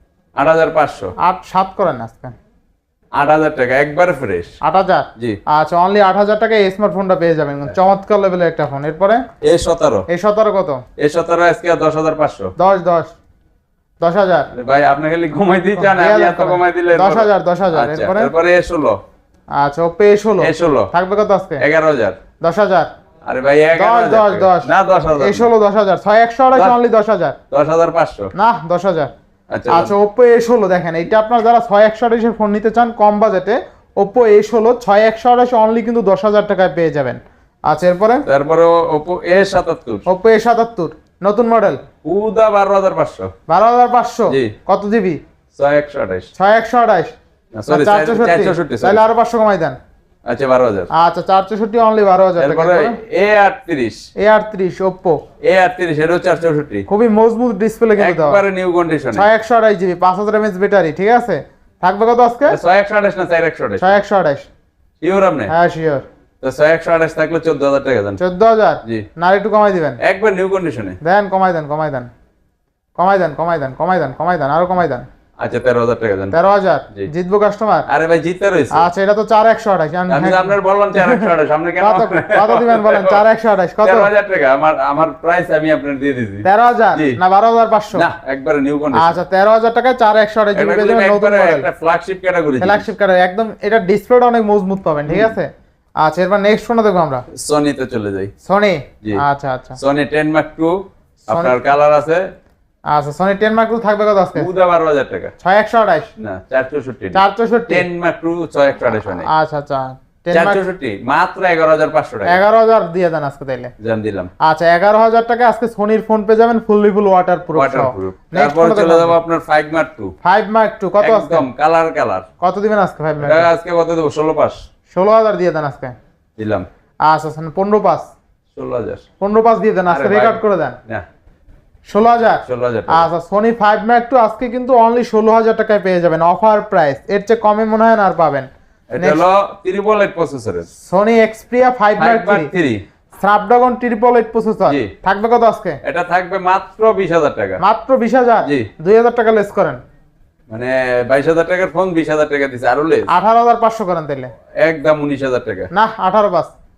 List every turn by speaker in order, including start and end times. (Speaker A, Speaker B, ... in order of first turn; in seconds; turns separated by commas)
Speaker A: 0.4-1.1, Speaker B: 1.2-2.3, Speaker A: 3.1-4.5, Speaker B: 4.6-9.2, Speaker A: 9.4-10.1, Speaker B: 10.1-10.8, Speaker A: 11.0-12.5, Speaker B: 12.6-13.1, Speaker B: 14.0-14.5, Speaker A: 14.5-19.0, Speaker B: 15.8-18.3, Speaker B: 19.6-21.6, Speaker A: 20.4-20.9, Speaker A: 21.6-22.2, Speaker B: 22.4-22.9, Speaker A: 23.2-25.5, Speaker B: 23.8-27.4, Speaker A: 27.5-28.3, Speaker B: 28.3-29.1, Speaker A: 29.5-29.9, Speaker B: 29.7-38.2, Speaker A: 38.2-40.1, Speaker B: 40.1-41.8, Speaker A: 42.0-43.3, Speaker B: 43.5-45.2, Speaker A: 45.5-46.3, Speaker B: 46.4-47.1, Speaker A: 47.6-49.1, Speaker B: 47.7-49.8, Speaker A: 50.2-50.9, Speaker B: 50.9-53.0, Speaker A: 52.4-54.0, Speaker B: 54.2-55.2, Speaker A: 55.4-56.9, Speaker B: 56.9-58.4, Speaker A: 58.0-59.3, Speaker B: 59.1-62.6, Speaker A: 62.5-64.0, Speaker B: 63.8-64.5, Speaker A: 65.0-65.5, Speaker B: 65.5-66.0, Speaker A: 66.4-68.2, Speaker B: 68.2-70.0, Speaker A: 70.0-71.0, Speaker B: 71.0-72.1, Speaker B: 73.0-75.1, Speaker A: 75.4-76.4, Speaker B: 76.3-77.9, Speaker A: 77.9-78.9, Speaker B: 78.7-84.1, Speaker A: 80.1-83.2, Speaker A: 83.8-87.2, Speaker B: 86.4-88.1, Speaker A: 87.9-89.2, Speaker B: 88.9-91.7, Speaker A: 90.5-92.9, Speaker B: 92.6-97.2, Speaker A: 95.1-95.4, Speaker A: 97.3-98.3, Speaker B: 98.4-99.8, Speaker A: 99.8-102.3, Speaker B: 101.3-101.6, Speaker B: 102.9-104.5, Speaker A: 104.3-105.3, Speaker B: 105.4-106.1, Speaker A: 106.2-109.3, Speaker B: 107.1-107.9, Speaker B: 109.1-110.6, Speaker A: 110.3-112.4, Speaker B: 112.2-113.7, Speaker A: 113.8-114.3, Speaker B: 114.4-119.2, Speaker A: 117.5-120.1, Speaker B: 120.2-121.5, Speaker A: 121.0-122.3, Speaker B: 122.4-123.5, Speaker A: 123.2-124.6, Speaker B: 124.9-125.9, Speaker A: 126.4-126.7, Speaker B: 127.0-128.1, Speaker A: 128.5-129.0, Speaker B: 129.2-130.8, Speaker A: 129.9-131.0, Speaker B: 131.9-138.5, Speaker A: 132.5-133.1, Speaker A: 138.9-140.7, Speaker B: 139.0-139.2, Speaker B: 140.8-142.5, Speaker A: 142.0-142.8, Speaker B: 143.2-145.8, Speaker A: 145.8-147.6, Speaker B: 147.6-149.8, Speaker A: 150.5-153.1, Speaker B: 153.1-154.3, Speaker A: 154.6-155.7, Speaker B: 155.7-156.5